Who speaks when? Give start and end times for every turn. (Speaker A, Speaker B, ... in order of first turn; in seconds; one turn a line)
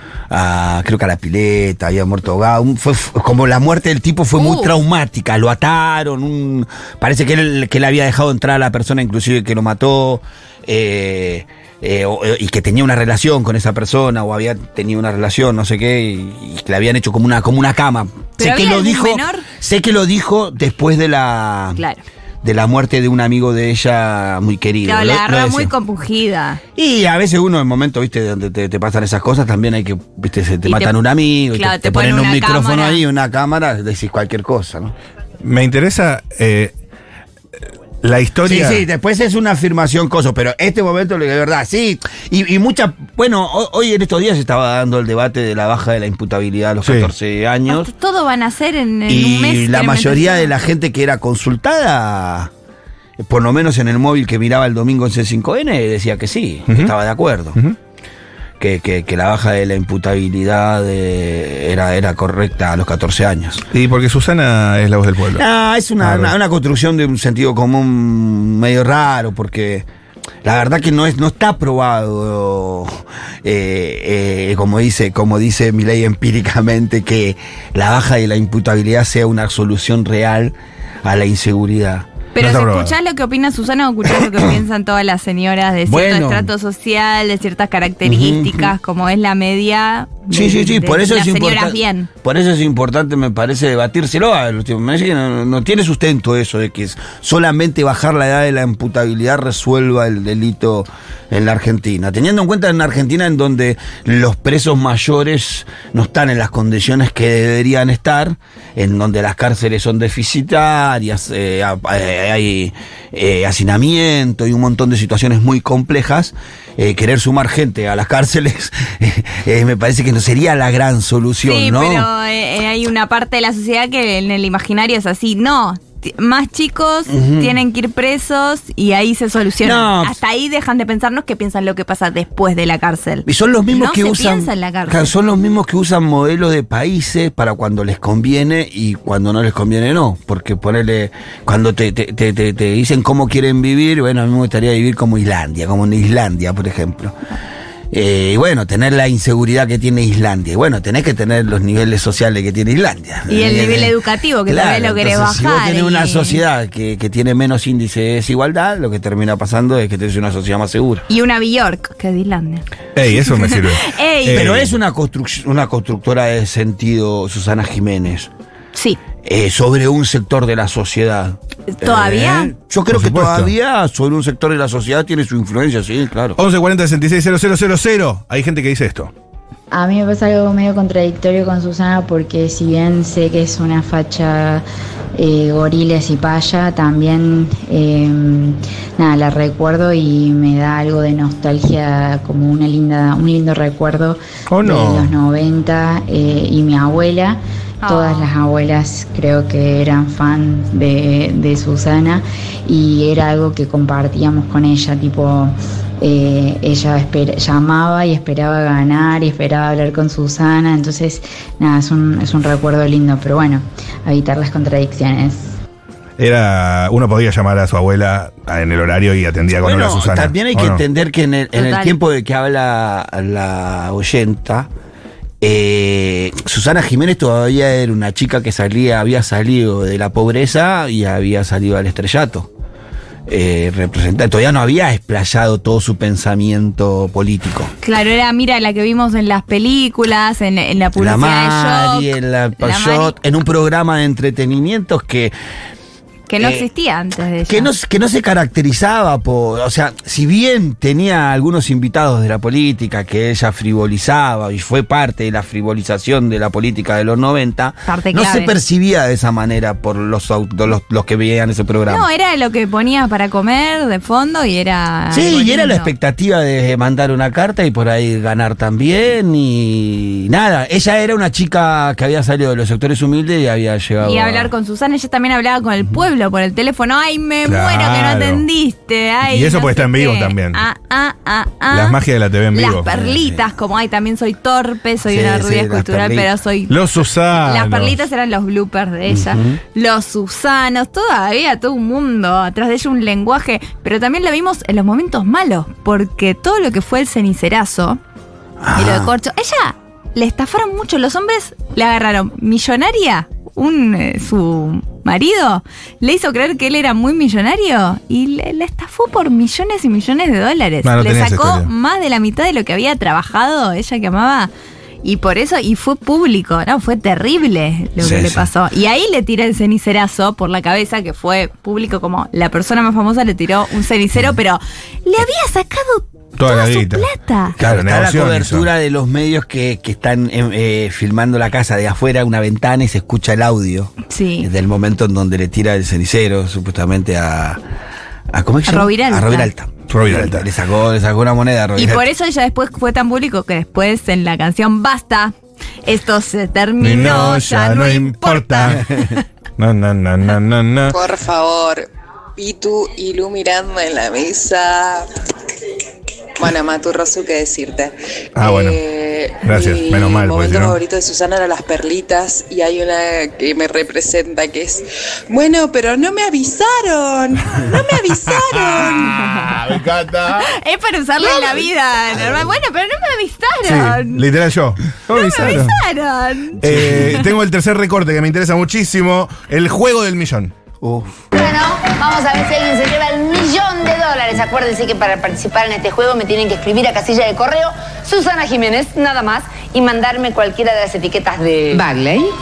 Speaker A: 0.3-21.8
Speaker B: 4.4-4.7
Speaker B: 18.4-19.4
Speaker B: 21.8-22.0
Speaker A: 22.4-25.7
Speaker B: 24.9-26.6
Speaker A: 26.8-34.9
Speaker B: 30.6-30.9
Speaker B: 31.5-33.0
Speaker C: 35.4-36.7
Speaker C: 38.0-38.9
Speaker A: 38.4-47.9
Speaker C: 46.8-47.1
Speaker B: 47.7-50.5
Speaker A: 49.1-52.5
Speaker A: 53.2-57.6
Speaker C: 56.7-56.9
Speaker A: 58.6-63.6
Speaker C: 63.7-65.4
Speaker A: 65.4-69.9
Speaker C: 66.0-66.3
Speaker A: 70.4-82.1
Speaker B: 82.3-92.1
Speaker C: 82.4-82.9
Speaker A: 85.9-86.5
Speaker A: 88.0-88.7
Speaker A: 90.3-122.1
Speaker B: 121.4-135.1
Speaker A: 127.1-127.5
Speaker A: 129.6-130.2
Speaker A: 133.2-147.2
Speaker A: 147.9-153.9
Speaker B: 153.3-156.4
Speaker A: 154.5-161.1
Speaker B: 161.1-164.4
Speaker C: 162.9-164.8
Speaker A: 164.3-168.3
Speaker B: 168.7-169.0
Speaker A: 169.2-176.4
Speaker B: 171.7-172.5
Speaker C: 172.9-173.5
Speaker C: 176.4-179.1
Speaker D: 179.7-184.6
Speaker D: 185.1-215.5
Speaker C: 194.5-195.1
Speaker B: 197.8-198.3
Speaker C: 216.2-220.8
Speaker A: 219.6-224.7
Speaker B: 221.5-221.9
Speaker A: 225.4-232.5
Speaker A: 233.3-237.7
Speaker B: 237.8-243.2
Speaker A: 241.0-245.3
Speaker B: 246.3-247.7
Speaker A: 246.4-246.7
Speaker A: 247.5-262.0
Speaker B: 257.9-258.5
Speaker B: 261.9-265.9
Speaker A: 265.1-274.5
Speaker B: 274.0-282.0
Speaker C: 277.4-278.4
Speaker C: 279.2-280.6
Speaker C: 281.7-283.1
Speaker B: 282.5-298.0
Speaker A: 285.1-286.3
Speaker C: 286.7-288.0
Speaker A: 289.1-289.6
Speaker A: 298.6-299.1
Speaker B: 298.7-314.5
Speaker C: 310.8-311.7
Speaker B: 315.0-327.5
Speaker A: 318.0-318.4
Speaker C: 326.4-328.7
Speaker A: 327.6-337.6
Speaker B: 334.1-334.5
Speaker A: 338.3-342.0
Speaker B: 338.6-339.5
Speaker C: 339.9-340.5
Speaker B: 341.8-345.3
Speaker B: 345.9-349.1
Speaker C: 346.8-348.8
Speaker A: 348.8-349.1
Speaker C: 349.6-351.0
Speaker E: 350.9-355.1
Speaker E: 356.4-369.1
Speaker C: 358.4-358.8
Speaker C: 359.4-360.8
Speaker C: 368.3-370.5
Speaker B: 368.9-369.6
Speaker B: 370.4-374.3
Speaker C: 373.6-375.8
Speaker B: 375.1-377.2
Speaker C: 376.6-380.5
Speaker A: 376.7-377.1
Speaker A: 380.8-381.2
Speaker F: 381.3-391.8
Speaker G: 388.3-389.6
Speaker G: 391.6-392.2